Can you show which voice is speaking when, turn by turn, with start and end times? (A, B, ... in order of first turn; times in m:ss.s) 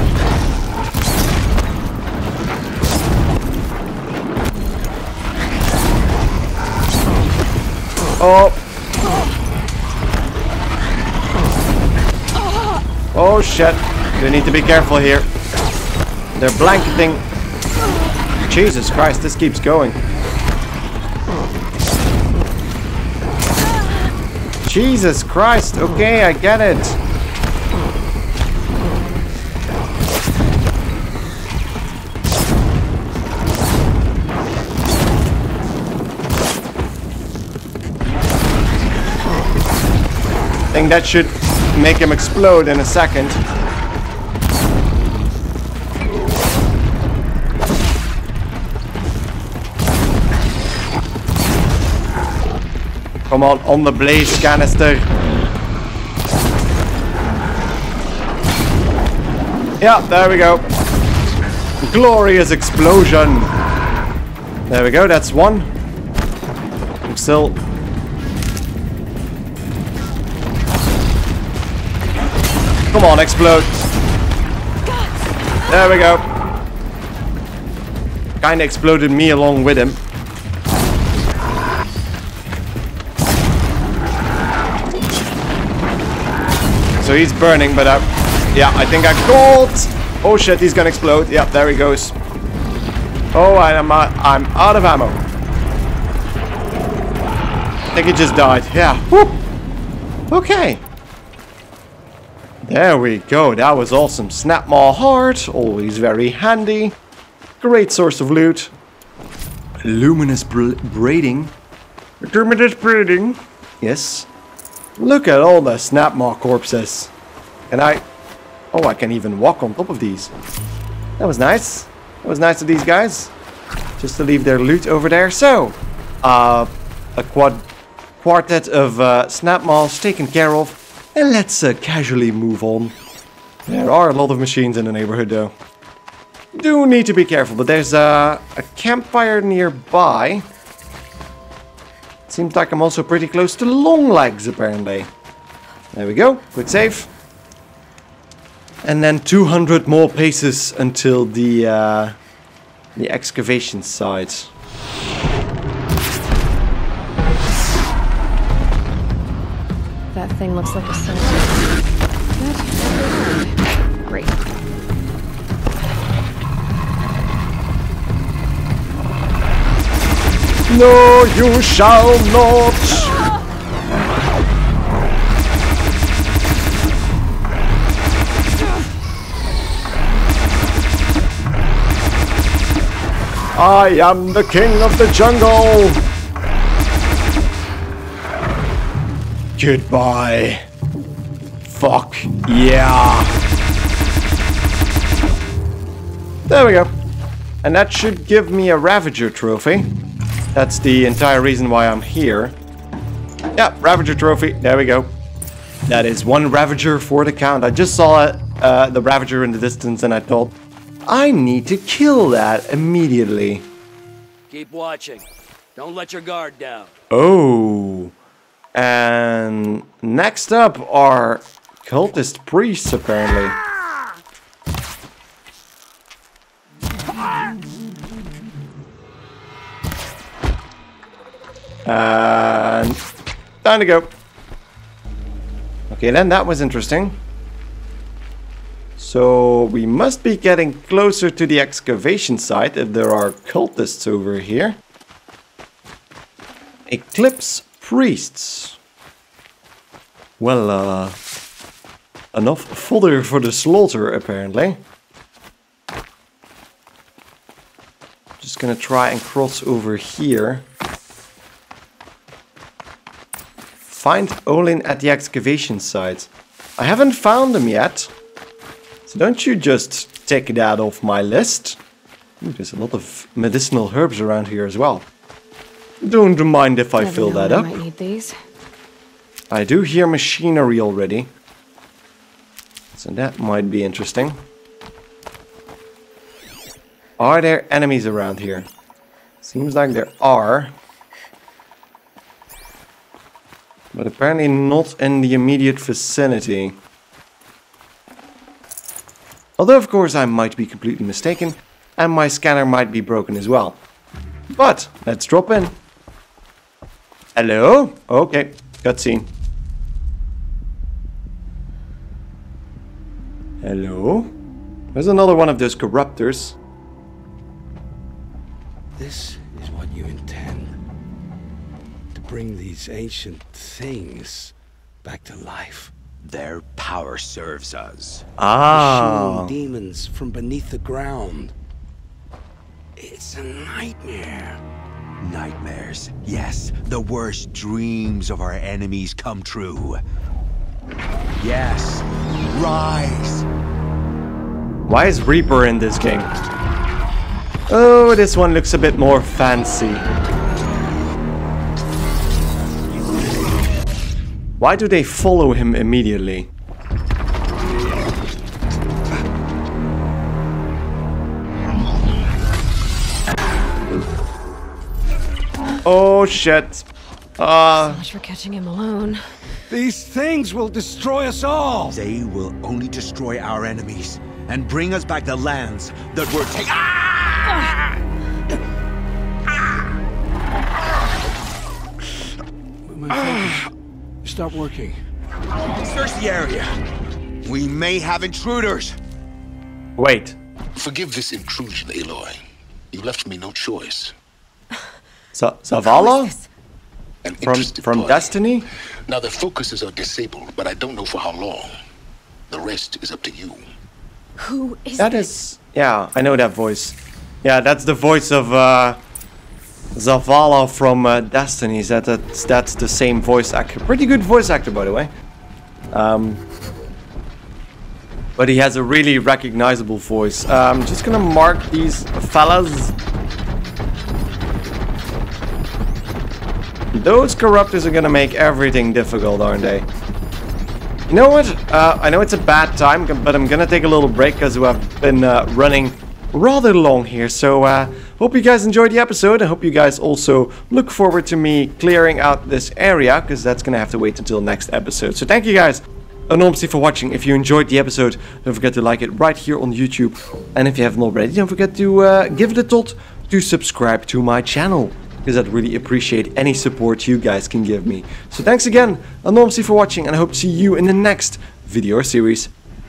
0:08.2-0:08.6 A
0:13.1-0:15.3 A
0:16.4-0:17.2 A
0:18.4-0:20.0 A
0:24.6-0:27.0 A
0:40.7-0:43.4 A
0:53.3-0:55.1 A
0:59.8-1:00.6 A
1:01.8-1:03.5 A
1:04.7-1:05.7 A
1:07.1-1:07.6 A
1:12.9-1:13.8 A
1:15.7-1:16.2 A
1:18.4-1:20.0 A
1:27.0-1:32.1 A
1:33.3-1:35.2 A
1:37.9-1:39.4 A
1:40.3-1:40.8 A
1:42.6-1:47.0 A
1:47.6-1:48.7 A
1:49.8-1:51.5 A
1:52.2-1:54.3 A
1:55.0-1:57.1 A
1:57.7-1:58.0 A
1:58.7-2:00.3 A
2:01.2-2:03.3 A
2:04.0-2:07.7 A
2:08.2-2:12.9 A
2:13.7-2:15.5 A
2:16.5-2:20.4 A
2:22.3-2:25.1 A
2:25.9-2:27.1 A
2:28.8-2:32.2 A
2:33.0-2:34.5 A
2:40.1-2:41.7 B
2:42.4-2:44.3 B
2:50.7-2:53.2 A
3:03.5-3:06.0 A
3:09.6-3:10.6 A
3:11.7-3:13.3 A
3:16.5-3:16.9 A
3:17.6-3:19.9 A
3:20.5-3:22.6 A
3:23.6-3:25.1 A
3:25.9-3:30.5 A
3:31.1-3:33.6 A
3:34.5-3:35.2 C
3:35.8-3:36.9 C
3:37.1-3:38.1 A
3:38.7-3:43.6 A
3:51.8-3:53.0 A
3:53.6-3:54.1 A
3:55.9-3:57.2 A
3:59.0-4:04.8 A
4:06.9-4:08.8 A
4:10.4-4:11.2 A
4:12.3-4:14.8 A
4:18.4-4:20.6 A
4:23.9-4:28.1 A
4:29.1-4:31.8 A
4:32.4-4:35.0 A
4:36.0-4:37.7 A
4:37.0-4:38.3 B
4:39.5-4:41.3 A
4:43.0-4:44.4 A
4:47.2-4:48.7 A
4:49.4-4:50.7 A
4:53.9-4:56.8 A
4:59.6-5:03.8 A
5:04.5-5:05.7 A
5:07.4-5:09.3 A
5:13.6-5:14.3 A
5:14.9-5:16.6 A
5:19.0-5:20.8 D
5:22.1-5:25.9 D
5:26.2-5:28.2 E
5:28.4-5:29.5 A
5:28.7-5:31.5 D
5:33.0-5:34.6 D
5:35.2-5:40.0 E
5:41.4-5:43.4 E
5:44.9-5:46.3 A
5:47.7-5:50.1 A
5:54.6-5:56.5 A
6:05.8-6:06.8 A
6:07.4-6:08.0 A
6:07.7-6:09.2 B
6:09.7-6:12.0 D
6:11.9-6:17.6 E
6:22.9-6:23.7 D
6:24.2-6:25.0 D
6:25.8-6:26.6 E
6:27.4-6:29.0 E
6:30.0-6:30.4 A
6:30.8-6:32.4 F
6:32.9-6:34.1 F
6:35.4-6:36.3 A
6:35.8-6:36.5 B
6:37.2-6:38.4 F
6:37.4-6:38.6 A
6:39.1-6:41.7 F
6:42.5-6:43.6 F
6:44.4-6:45.3 B
6:45.0-6:49.0 A
6:50.0-6:55.1 A
6:55.9-6:56.4 A
6:58.4-7:03.0 A
7:06.9-7:09.9 A
7:11.1-7:42.5 A